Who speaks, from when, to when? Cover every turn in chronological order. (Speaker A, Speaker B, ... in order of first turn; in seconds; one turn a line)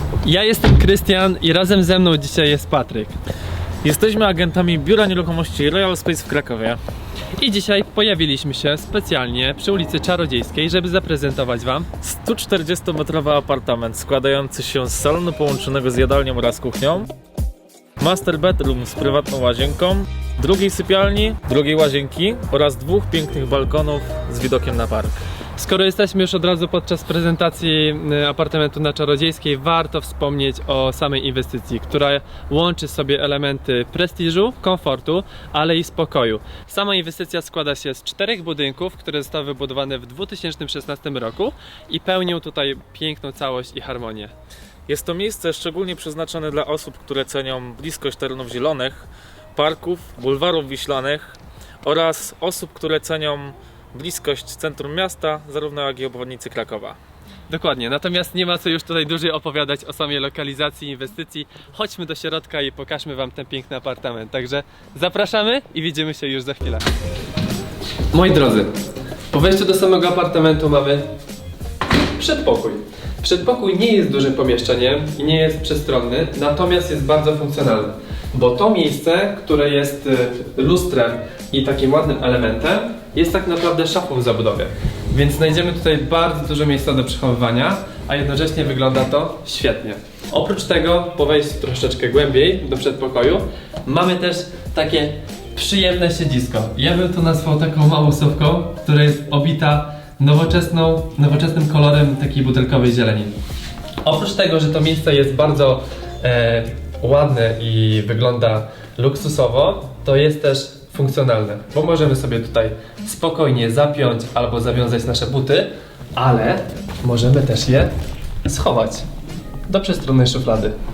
Speaker A: 0.2-3.1
Speaker B: 3.8-6.8
Speaker A: 7.4-11.9
Speaker B: 12.0-17.1
Speaker B: 18.0-25.2
Speaker A: 25.6-44.3
Speaker B: 44.9-57.0
Speaker A: 57.5-66.8
Speaker A: 68.1-68.8
Speaker A: 69.3-71.1
Speaker A: 72.2-103.3
Speaker A: 104.0-117.9
Speaker A: 118.5-119.0
Speaker A: 119.7-120.7